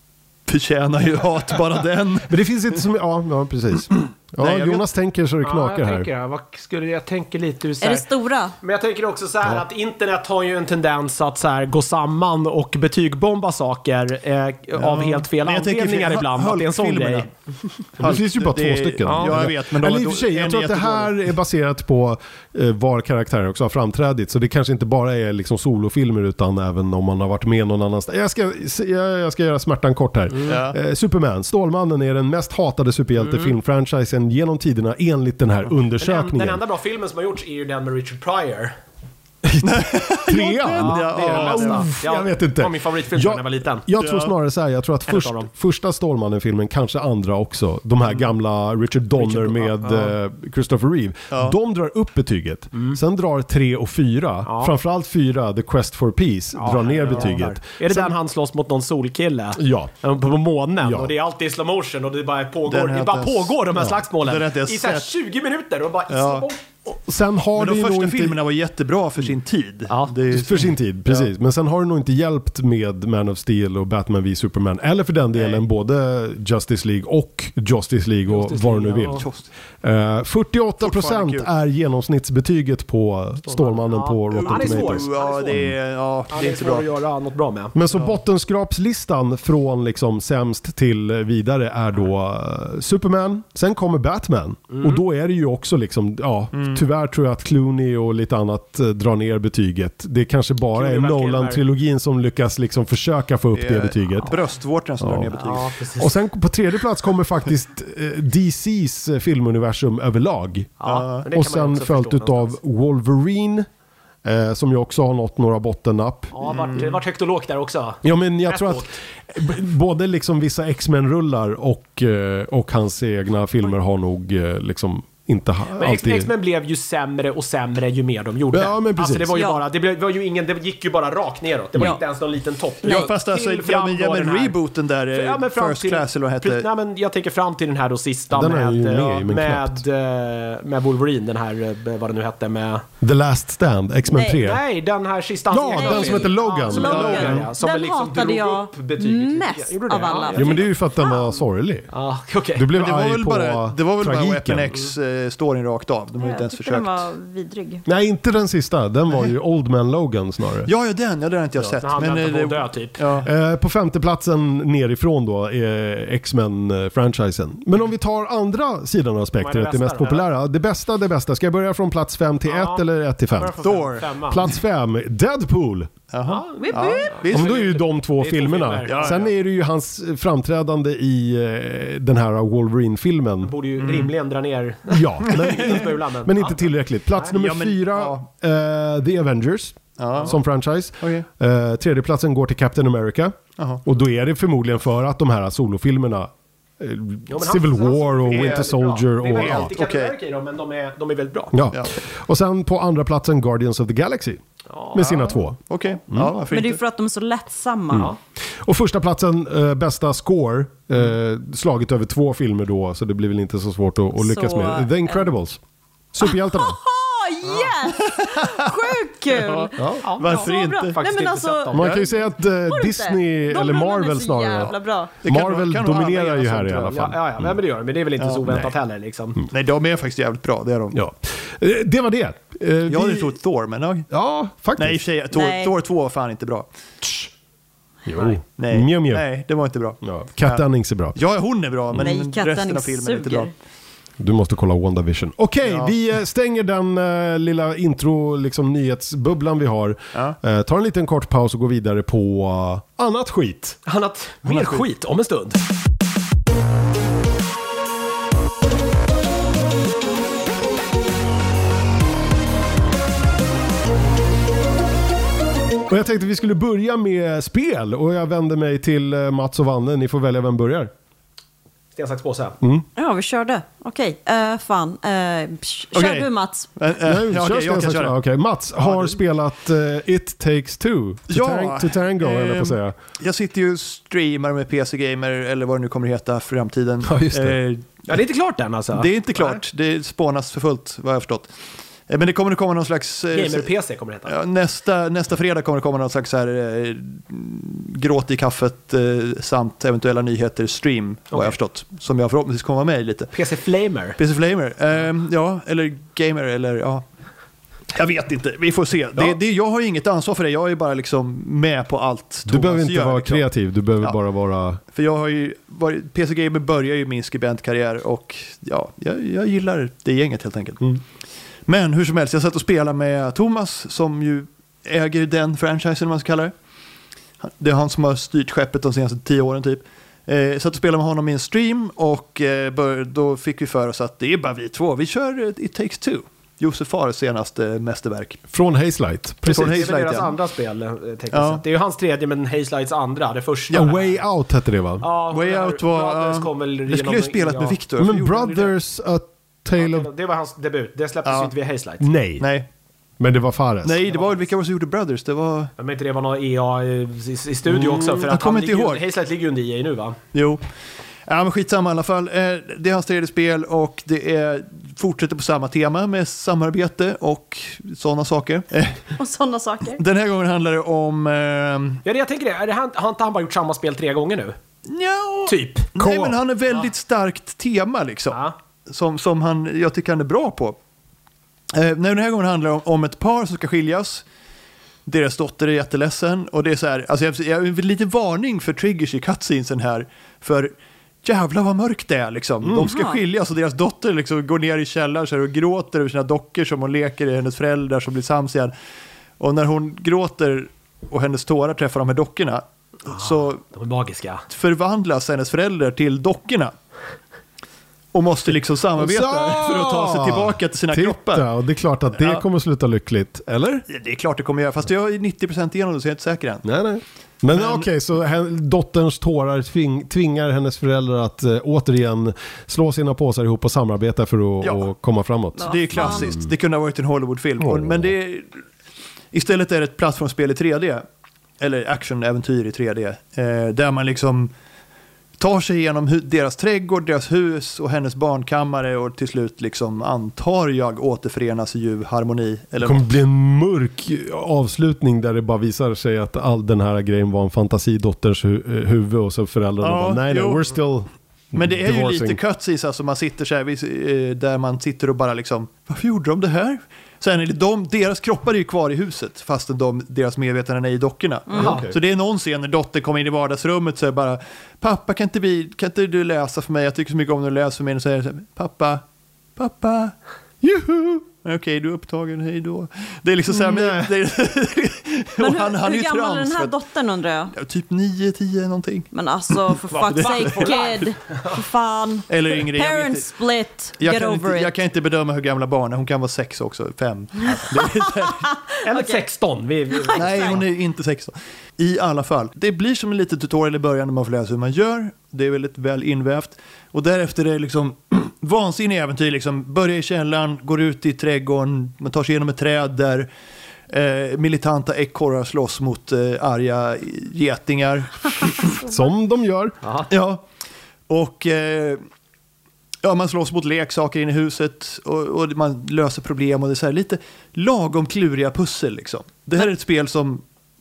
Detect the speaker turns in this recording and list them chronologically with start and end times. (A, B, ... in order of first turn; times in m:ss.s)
0:00.5-0:02.4 A
0:02.3-0:06.1 B
0:04.4-0:04.8 A
0:05.4-0:08.1 C
0:07.8-0:08.5 D
0:08.6-0:17.3 C
0:14.8-0:17.3 A
0:18.0-0:21.2 A
0:18.0-0:36.6 B
0:19.0-0:19.5 C
0:30.4-0:30.8 A
0:36.0-0:38.8 C
0:39.4-0:58.1 B
0:39.6-0:41.9 A
0:40.7-0:43.9 C
0:44.0-0:44.3 A
0:45.1-0:45.5 C
0:49.1-0:50.1 C
0:54.4-0:54.7 C
0:56.6-1:06.6 C
0:59.6-0:59.9 B
1:00.8-1:01.1 B
1:02.7-1:03.6 A
1:03.8-1:04.0 B
1:04.2-1:05.1 A
1:06.1-1:06.5 A
1:06.8-1:08.4 B
1:07.6-1:11.3 A
1:09.9-1:10.1 C
1:10.3-1:19.3 B
1:18.3-1:19.2 C
1:19.1-1:19.5 A
1:19.8-1:25.7 B
1:20.8-1:21.5 A
1:23.5-1:25.6 C
1:24.3-1:26.9 A
1:26.3-1:28.1 C
1:27.7-1:44.3 B
1:34.7-1:35.0 C
1:36.5-1:36.8 A
1:40.7-1:41.6 C
1:43.5-1:45.7 A
1:45.0-1:45.3 B
1:45.3-1:46.2 C
1:45.9-1:53.7 B
1:50.8-1:52.6 C
1:50.9-1:51.2 A
1:54.2-1:56.8 B
1:56.3-1:58.9 C
1:56.5-1:56.9 A
1:58.0-2:06.3 B
2:05.7-2:14.6 C
2:08.5-2:09.4 B
2:09.3-2:09.6 D
2:11.7-2:12.0 B
2:12.8-2:16.7 A
2:15.1-2:22.8 C
2:18.3-2:19.8 B
2:23.0-2:24.6 B
2:24.1-2:24.4 D
2:24.3-2:30.6 C
2:25.5-2:27.3 B
2:25.7-2:31.4 D
2:26.8-2:27.5 A
2:30.3-2:31.9 B
2:31.9-2:32.7 C
2:32.5-2:34.8 B
2:32.7-2:37.1 A
2:36.2-2:37.8 D
2:37.8-2:40.7 B
2:40.6-2:43.3 A
2:41.6-2:43.0 C
2:43.2-2:53.6 B
2:49.4-2:50.2 C
2:52.4-2:52.8 C
2:53.3-2:54.4 C
2:53.6-2:54.2 A
2:54.3-2:55.9 B
2:56.1-2:57.7 A
2:56.2-2:59.3 C
2:56.6-2:57.2 D
2:57.3-3:03.5 B
2:58.8-2:59.3 A
3:03.4-3:06.6 C
3:03.8-3:04.1 A
3:04.9-3:19.7 B
3:05.3-3:05.7 A
3:07.3-3:08.2 A
3:10.0-3:10.4 A
3:11.0-3:11.2 A
3:13.6-3:13.8 A
3:17.3-3:21.6 C
3:18.4-3:18.6 A
3:19.3-3:20.1 A
3:21.5-3:25.6 B
3:24.7-3:25.2 C
3:25.0-3:26.8 A
3:26.1-3:26.3 B
3:26.5-3:28.1 D
3:27.9-3:35.6 B
3:34.2-3:35.3 D
3:36.1-3:36.8 B
3:36.2-3:45.1 D
3:38.0-3:38.7 A
3:39.3-3:41.0 A
3:39.8-3:40.0 B
3:40.0-3:42.0 C
3:41.7-3:47.5 B
3:44.6-3:47.0 A
3:46.9-3:49.4 C
3:48.2-3:48.4 A
3:48.5-3:48.7 B
3:49.5-3:51.0 A
3:50.9-3:53.3 B
3:52.9-3:54.1 A
3:54.1-3:55.0 B
3:54.8-3:56.7 A
3:55.3-3:55.7 D
3:58.0-3:59.2 B
3:58.6-4:00.6 A
4:00.0-4:01.2 B
4:01.1-4:03.5 A
4:02.0-4:03.5 D
4:04.2-4:13.8 B
4:05.6-4:05.9 A
4:13.8-4:15.6 C
4:14.4-4:14.9 A
4:25.9-4:30.9 B
4:32.0-4:32.6 C
4:33.0-4:36.7 D
4:35.9-4:38.1 A
4:37.0-4:43.0 B
4:38.8-4:39.2 A
4:41.3-4:48.0 A
4:47.0-4:47.6 B
4:48.1-4:49.6 C
4:48.9-4:51.5 A
4:52.1-4:53.7 A
4:53.3-4:54.3 C
4:54.2-5:03.3 A
5:03.3-5:04.2 C
5:04.2-5:07.0 A
5:07.9-5:13.4 A
5:12.5-5:14.8 B
5:14.9-5:21.0 A
5:21.7-5:26.5 A
5:27.4-5:38.4 A
5:38.5-5:40.0 B
5:39.4-5:40.3 A
5:39.5-5:44.2 C
5:41.3-5:41.6 A
5:43.7-5:44.0 A
5:43.7-5:45.0 B
5:45.0-5:47.8 C
5:45.3-5:48.7 A
5:48.0-5:50.1 B
5:49.8-5:52.1 C
5:51.2-5:51.5 A
5:52.0-5:52.5 B
5:52.4-5:52.7 A
5:53.2-5:54.1 B
5:53.8-5:55.7 A
5:54.1-5:54.4 C
5:55.8-6:00.2 C
5:57.7-5:59.0 A
6:00.3-6:00.6 A
6:01.2-6:09.1 A
6:09.2-6:10.0 D
6:10.0-6:12.0 A
6:12.0-6:14.6 C
6:14.9-6:20.8 A
6:15.5-6:15.9 C
6:16.0-6:16.4 B
6:21.7-6:24.2 A
6:25.0-6:38.7 A
6:32.6-6:32.9 B
6:32.8-6:33.2 D
6:39.4-6:43.6 A
6:43.1-6:44.4 C
6:44.5-6:46.7 A
6:48.1-6:51.5 A
6:49.0-6:53.8 B
6:52.2-6:52.4 A
6:53.9-6:56.6 A
6:56.6-7:06.4 B
6:57.5-6:57.9 A
7:05.6-7:06.4 D
7:05.6-7:08.5 A
7:07.6-7:08.1 B
7:09.3-7:11.0 A
7:11.6-7:14.5 A
7:15.4-7:23.1 A
7:22.8-7:32.4 B
7:29.8-7:30.6 A
7:31.5-7:49.0 A
7:41.5-7:41.8 D
7:41.6-7:41.9 B
7:41.6-7:41.9 C
7:49.6-7:50.1 A
7:50.6-7:51.2 B
7:51.4-7:56.7 A
7:53.5-7:54.1 B
7:55.4-7:57.5 D
7:57.5-8:00.8 A
7:59.1-8:04.7 D
7:59.9-8:01.6 C
8:02.3-8:03.3 A
8:04.0-8:08.5 A
8:07.6-8:09.2 D
8:08.8-8:10.6 C
8:09.9-8:10.6 D
8:10.1-8:23.3 A
8:23.9-8:28.8 A
8:28.8-8:29.8 B
8:29.8-8:30.1 C
8:30.1-8:30.4 A
8:31.1-8:32.0 A
8:33.0-8:40.4 A